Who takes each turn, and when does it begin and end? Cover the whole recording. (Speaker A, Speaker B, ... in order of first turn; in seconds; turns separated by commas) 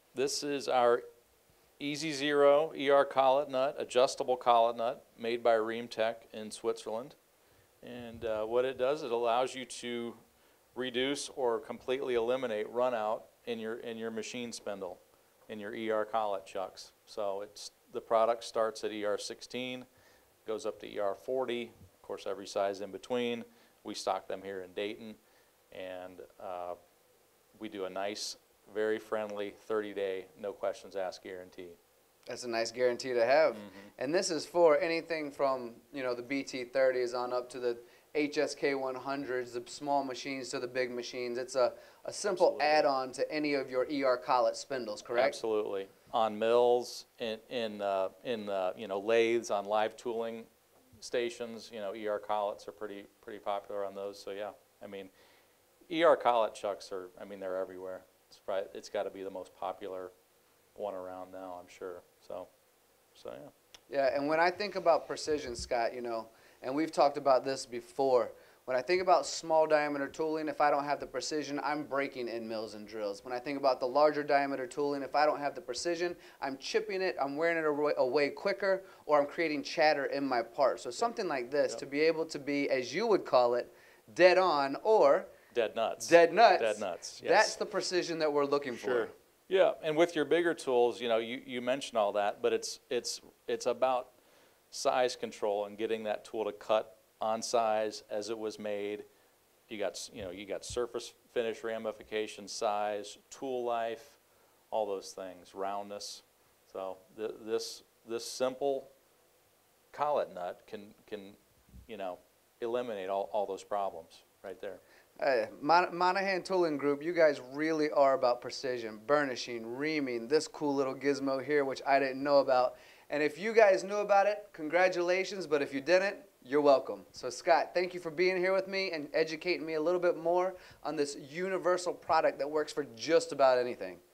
Speaker A: 0.1-1.0, Speaker A: 1.8-7.2, Speaker A: 7.8-10.2, Speaker A: 10.7-19.9, Speaker A: 20.4-25.2, Speaker A: 25.7-26.8, Speaker A: 27.6-31.8, Speaker B: 32.3-45.4, Speaker A: 33.5-33.9, Speaker A: 42.2-42.9, Speaker A: 45.1-50.5, Speaker A: 51.0-55.1, Speaker A: 55.9-60.1, Speaker A: 60.7-62.5, Speaker A: 63.1-63.5, Speaker B: 63.9-85.3, Speaker A: 85.5-87.6, Speaker B: 86.0-89.1, Speaker A: 88.7-94.1, Speaker A: 94.7-99.0, Speaker A: 99.7-104.2, Speaker A: 104.7-108.9, Speaker A: 109.9-114.8, Speaker B: 115.2-134.0